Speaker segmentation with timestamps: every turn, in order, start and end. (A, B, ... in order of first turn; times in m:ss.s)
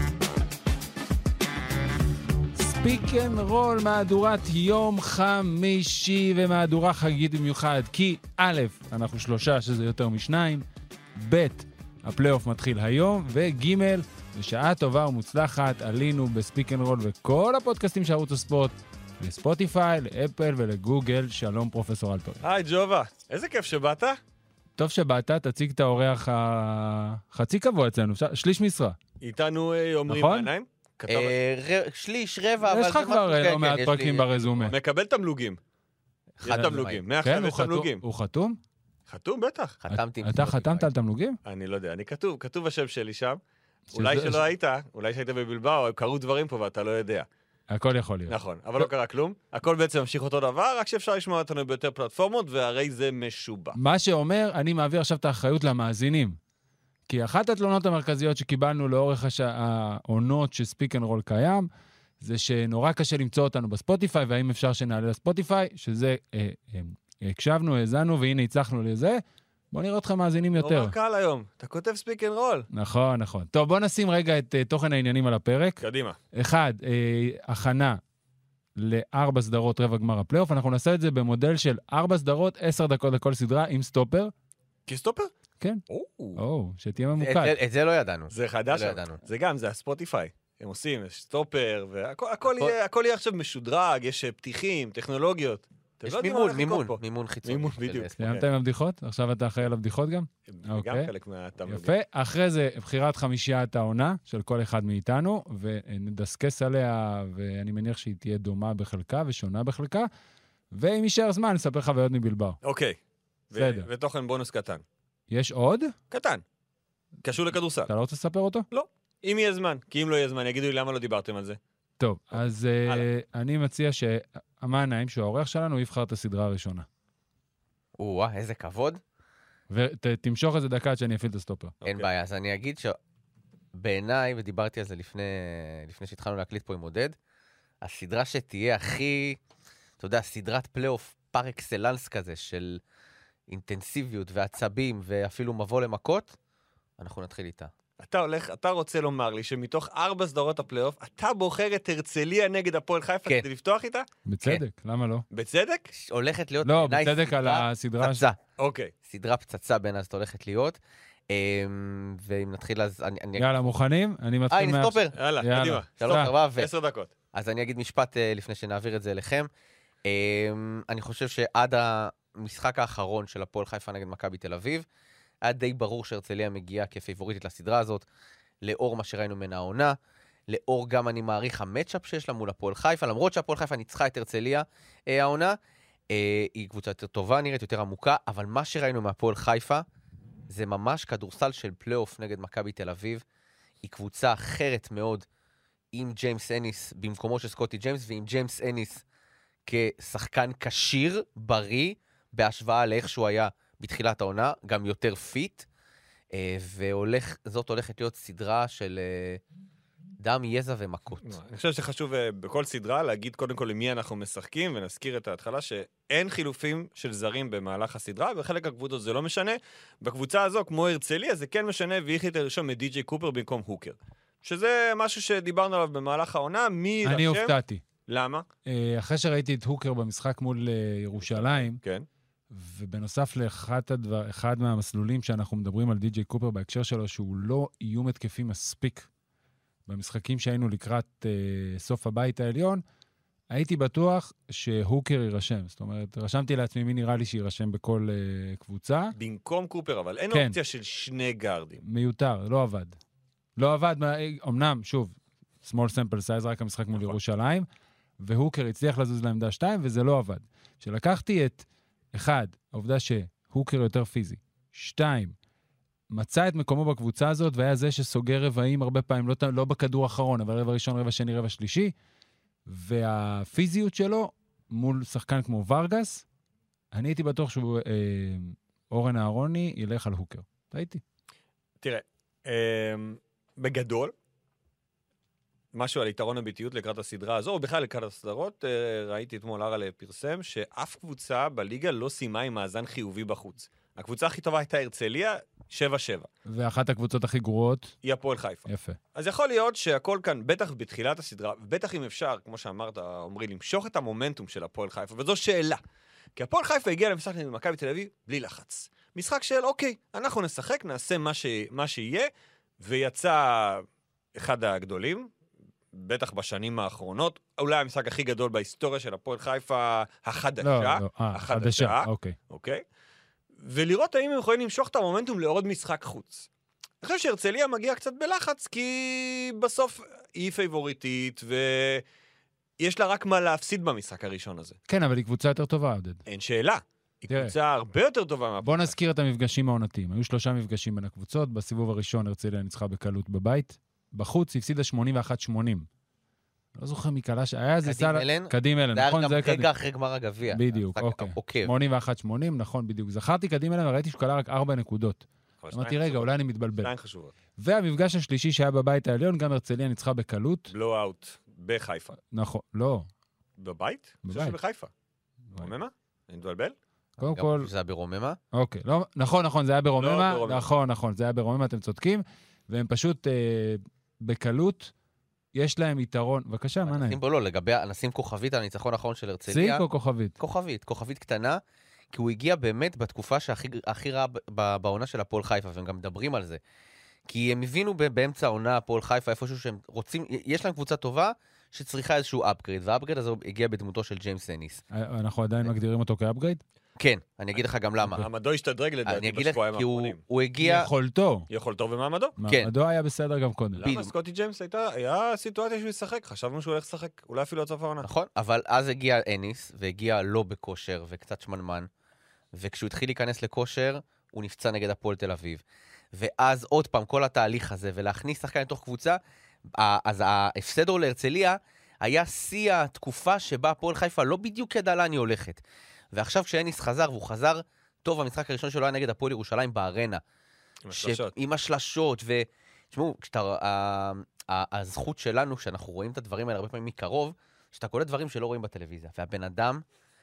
0:02.6-0:10.6 A
0:11.2-0:22.4 A
0:22.4-0:24.2 B
0:24.8-0:29.0 A
0:29.2-0:31.4 B
0:30.1-0:30.5 A
0:31.1-0:34.7 C
0:32.6-0:34.8 A
0:34.7-0:35.6 B
0:36.4-0:37.0 C
0:36.4-0:38.0 B
0:36.5-0:38.6 A
0:39.1-0:39.8 B
0:39.8-0:40.9 C
0:39.9-0:41.4 A
0:41.4-0:43.4 B
0:43.9-0:44.4 A
0:43.9-0:47.3 B
0:47.7-0:48.4 A
0:48.3-0:53.8 B
0:53.8-0:56.4 A
0:57.1-1:01.7 A
1:02.2-1:10.9 A
1:10.6-1:12.7 B
1:12.7-1:15.8 A
1:15.8-1:16.2 B
1:16.3-1:18.0 A
1:18.8-1:24.3 A
1:24.9-1:25.3 B
1:25.9-1:26.4 B
1:26.4-1:27.6 A
1:27.2-1:29.2 C
1:28.3-1:38.4 B
1:36.0-1:38.2 C
1:38.2-1:41.1 A
1:40.5-1:42.0 B
1:41.7-1:50.1 A
1:50.7-1:52.6 A
1:52.6-1:53.0 B
1:53.5-1:54.8 B
1:53.5-1:53.9 A
1:55.3-1:56.0 A
1:56.1-1:56.4 B
1:57.2-1:57.9 B
1:57.9-1:58.7 A
1:58.7-2:01.6 B
2:02.0-2:06.9 A
2:08.0-2:09.0 C
2:09.7-2:11.8 A
2:11.8-2:12.1 B
2:11.8-2:13.0 C
2:13.7-2:17.2 C
2:17.8-2:19.4 C
2:20.0-2:22.8 C
2:23.5-2:26.4 C
2:27.0-2:27.7 C
2:28.0-2:34.1 B
2:34.3-2:35.2 A
2:35.3-2:35.9 B
2:35.9-2:38.4 C
2:36.6-2:38.2 A
2:38.6-2:38.9 B
2:39.1-2:40.8 C
2:41.3-2:43.5 C
2:43.4-2:46.3 A
2:44.5-2:45.2 C
2:45.1-2:47.1 B
2:46.0-2:46.7 C
2:47.3-2:49.5 C
2:50.0-2:54.8 C
2:55.4-2:58.0 C
2:58.6-3:00.0 C
3:00.5-3:05.6 C
3:06.1-3:09.8 C
3:10.5-3:13.2 C
3:13.8-3:15.2 C
3:15.9-3:19.0 C
3:19.7-3:25.7 C
3:26.3-3:29.4 C
3:30.2-3:31.3 C
3:31.2-3:47.6 B
3:47.0-3:47.8 A
3:48.1-3:48.4 B
3:48.7-3:51.8 A
3:51.2-3:52.1 B
3:52.5-3:59.1 A
3:59.9-4:02.8 A
4:03.5-4:09.2 A
4:09.2-4:11.8 B
4:10.3-4:10.6 A
4:11.8-4:13.0 A
4:13.6-4:17.7 A
4:18.2-4:25.4 A
4:26.1-4:31.9 A
4:32.7-4:36.2 A
4:36.9-4:41.0 A
4:41.8-4:44.1 B
4:45.7-4:56.3 B
4:56.5-4:57.9 A
4:58.0-5:05.8 B
4:58.7-4:59.0 A
5:06.4-5:15.3 B
5:15.9-5:22.8 B
5:20.6-5:22.4 A
5:23.6-5:26.5 B
5:27.0-5:32.0 B
5:32.8-5:34.8 B
5:34.9-5:36.2 A
5:36.3-5:38.9 B
5:37.3-5:37.5 A
5:38.6-5:45.9 A
5:46.8-5:49.7 A
5:47.8-5:51.7 C
5:50.5-5:56.9 A
5:55.6-5:56.3 B
5:56.8-5:57.3 B
5:57.6-6:00.7 A
6:00.7-6:02.2 B
6:02.3-6:03.1 A
6:03.6-6:04.9 B
6:04.2-6:04.6 A
6:05.5-6:06.7 B
6:07.2-6:07.7 A
6:07.4-6:08.4 C
6:08.5-6:14.9 A
6:10.0-6:10.7 B
6:15.5-6:17.2 A
6:16.9-6:19.8 C
6:19.5-6:20.4 A
6:20.4-6:21.6 C
6:22.1-6:26.6 C
6:27.3-6:34.8 C
6:34.9-6:36.6 A
6:37.0-6:38.3 C
6:38.0-6:40.2 B
6:39.1-6:40.9 C
6:40.6-6:41.5 A
6:41.5-6:42.4 B
6:42.4-6:43.9 A
6:43.8-6:48.1 B
6:43.8-6:44.1 C
6:48.0-6:51.9 C
6:52.5-6:55.6 C
6:56.1-6:59.2 C
6:59.7-7:05.6 C
7:06.1-7:10.2 C
7:10.8-7:11.3 B
7:10.9-7:19.8 C